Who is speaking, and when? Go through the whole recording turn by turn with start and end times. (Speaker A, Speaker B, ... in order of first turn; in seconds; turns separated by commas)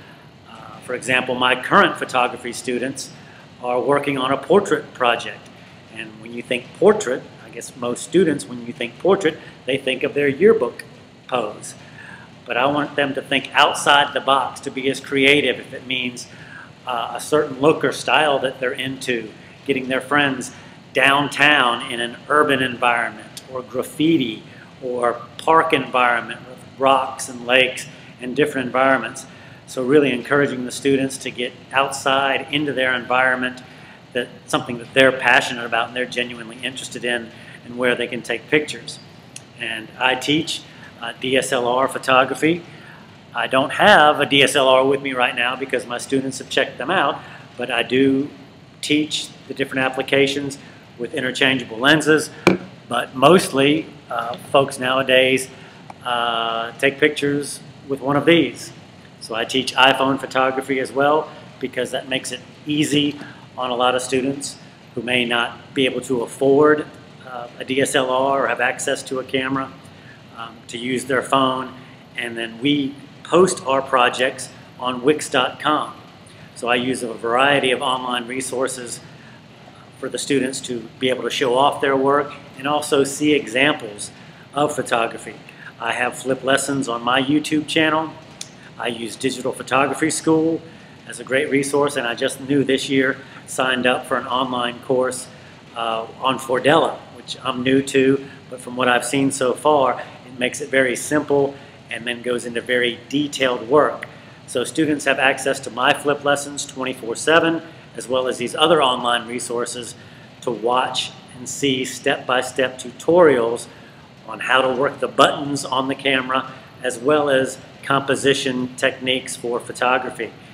Speaker A: 0.8-11.8, Speaker A: 12.5-16.3, Speaker A: 16.9-33.6, Speaker A: 34.1-39.0, Speaker A: 39.6-42.6, Speaker A: 43.3-52.3, Speaker A: 52.9-55.5, Speaker A: 56.0-69.7, Speaker A: 70.4-76.0, Speaker A: 76.6-79.0, Speaker A: 80.0-88.1, Speaker A: 88.8-113.7, Speaker A: 114.3-120.3